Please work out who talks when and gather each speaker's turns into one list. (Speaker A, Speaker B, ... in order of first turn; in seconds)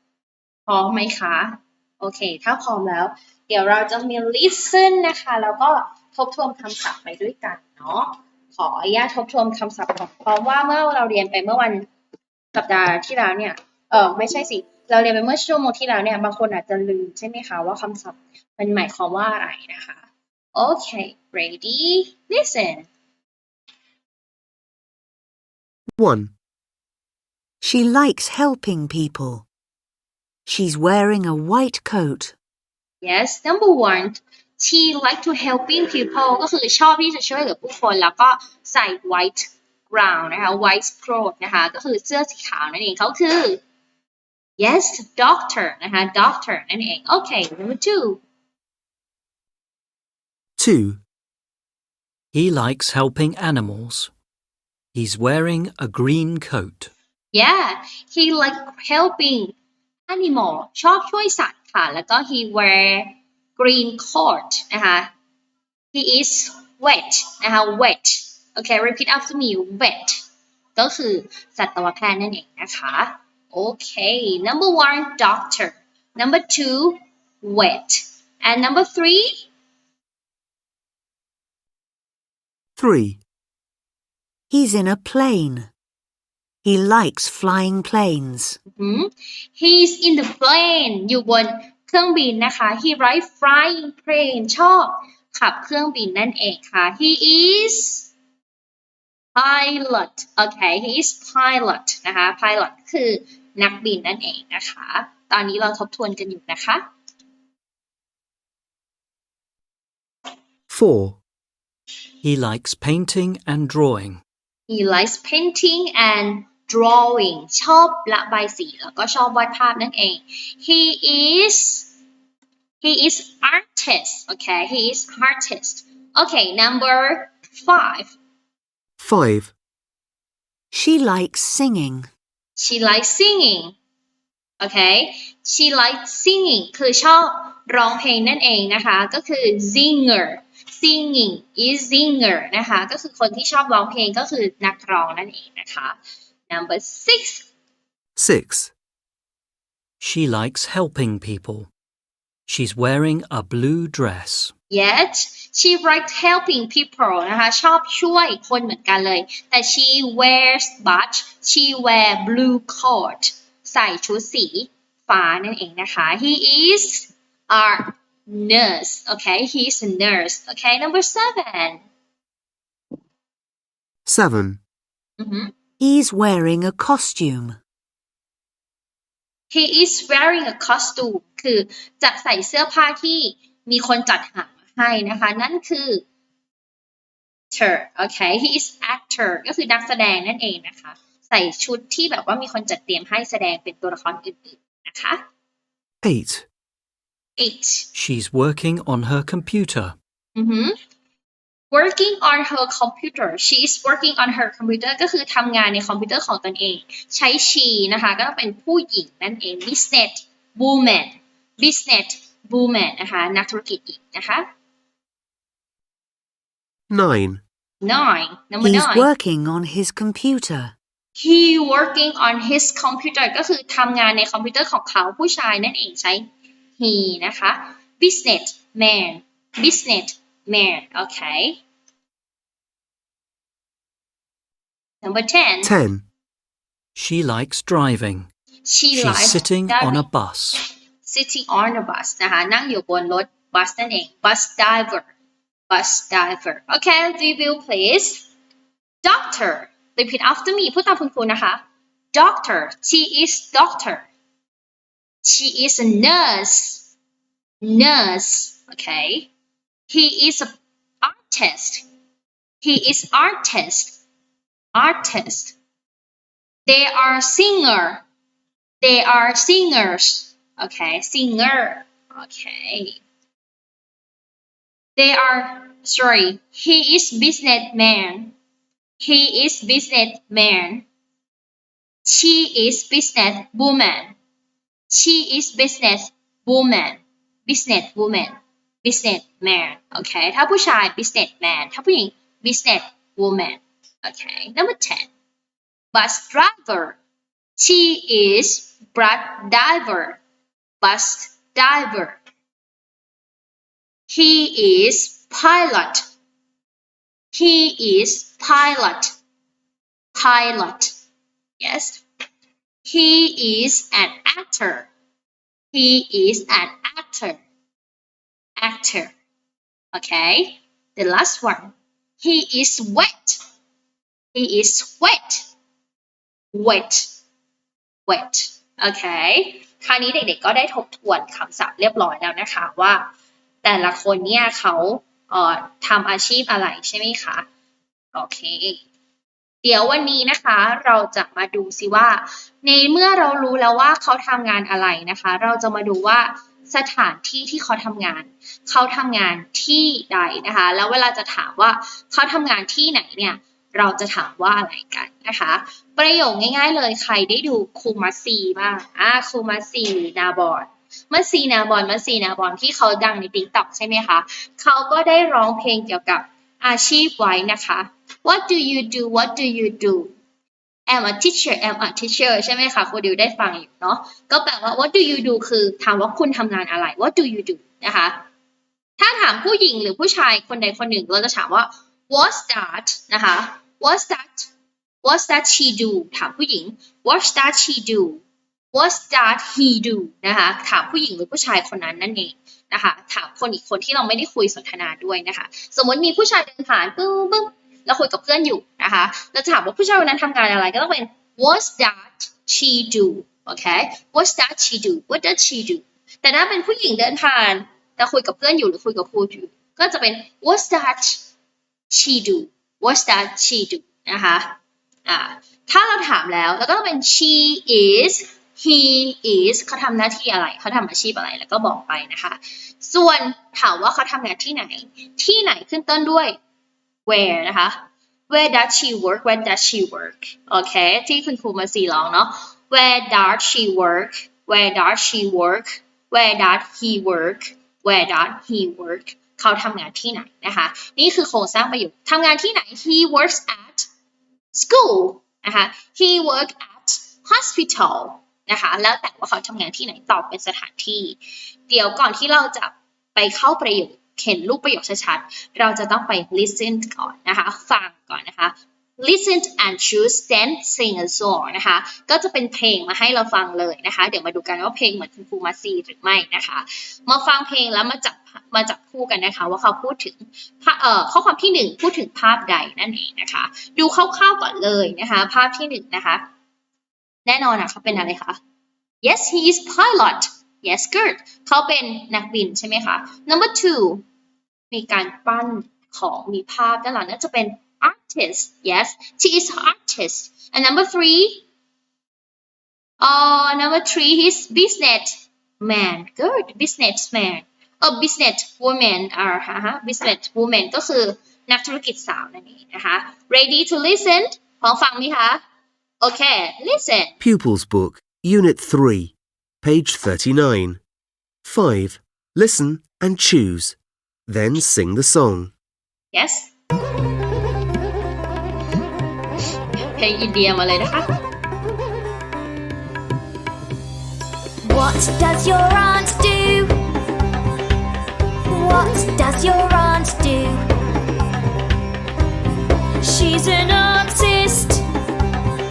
Speaker A: 0.7-11.8, 12.5-22.9, 33.0-43.6, 44.6-48.2, 57.3-59.5, 60.1-65.1, 65.9-70.2, 70.8-79.5, 88.7-98.1, 99.3-106.8, 114.7-121.9, 122.8-128.1, 132.6-133.7, 134.6-146.0, 146.5-147.5, 154.7-171.8, 175.2-175.5, 179.5-186.0, 187.5-195.2, 197.4-197.9, 200.3-200.7, 201.7-214.5, 217.8-219.1, 221.2-226.2, 226.8-231.6, 235.0-235.7, 238.6-240.0, 241.0-245.1, 245.7-248.3, 249.0-251.6, 252.1-254.1, 255.2-256.9, 257.6-259.3, 259.9-260.5, 261.0-261.8, 262.6-264.0, 264.7-265.6, 266.6-268.0, 268.8-273.0, 274.9-278.3, 279.0-280.8, 282.0-284.1, 284.9-295.1, 295.9-297.0, 297.6-300.2, 300.8-302.2, 304.1-306.0, 307.3-309.1, 310.1-310.9, 311.6-312.0, 312.8-314.9, 315.7-317.4, 318.6-319.1, 319.9-323.4, 324.3-325.4, 326.5-327.1, 328.1-333.1, 333.6-337.4, 338.1-338.8, 339.6-370.1, 370.9-378.2, 379.0-384.5, 385.0-388.2, 388.7-411.2, 411.9-426.4, 427.1-443.9, 444.5-476.2, 477.2-478.4, 479.0-484.0, 484.7-491.4, 493.0-505.4, 506.0-507.1, 516.1-516.5, 519.8-521.0
Speaker B: 26.0-26.3, 50.6-51.0, 82.8-83.2, 110.7-111.2, 129.0-129.5, 148.2-148.7, 174.1-174.6, 196.0-196.4, 216.9-217.4, 235.6-236.1, 507.2-510.8, 511.4-515.5
Speaker C: 27.6-29.4, 30.4-32.3, 84.5-85.7, 86.6-88.6, 130.7-132.1, 175.8-177.6, 218.6-220.7
Speaker D: 52.3-54.1, 54.9-56.9, 112.2-114.2, 150.0-151.7, 152.5-154.5, 197.9-199.9, 236.9-238.3, 238.9-240.6
Speaker E: 524.6-526.7, 528.5-530.6, 533.0-534.8